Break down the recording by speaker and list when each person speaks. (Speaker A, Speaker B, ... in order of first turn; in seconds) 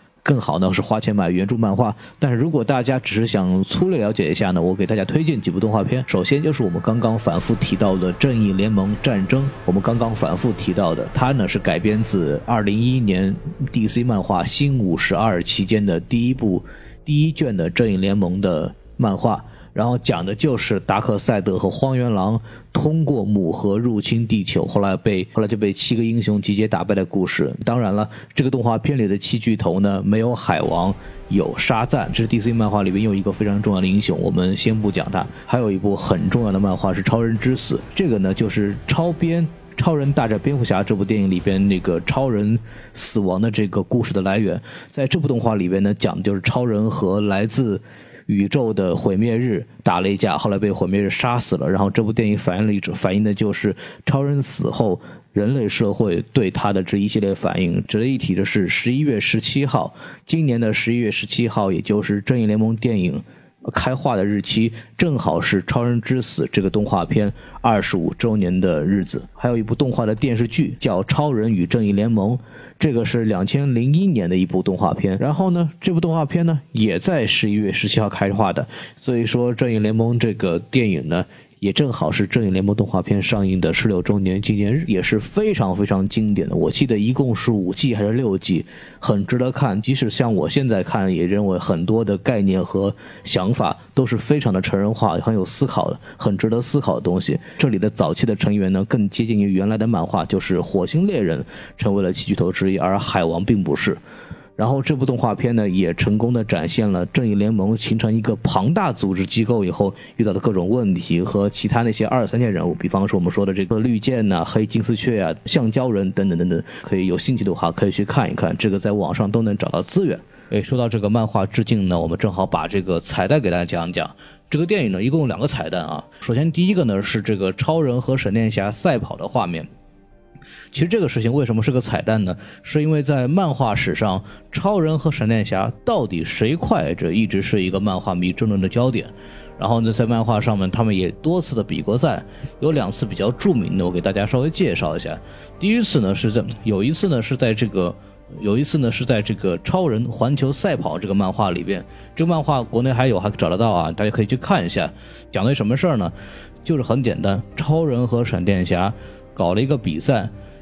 Speaker A: 0.2-104.0, 104.6-129.7, 130.7-156.1, 156.7-160.3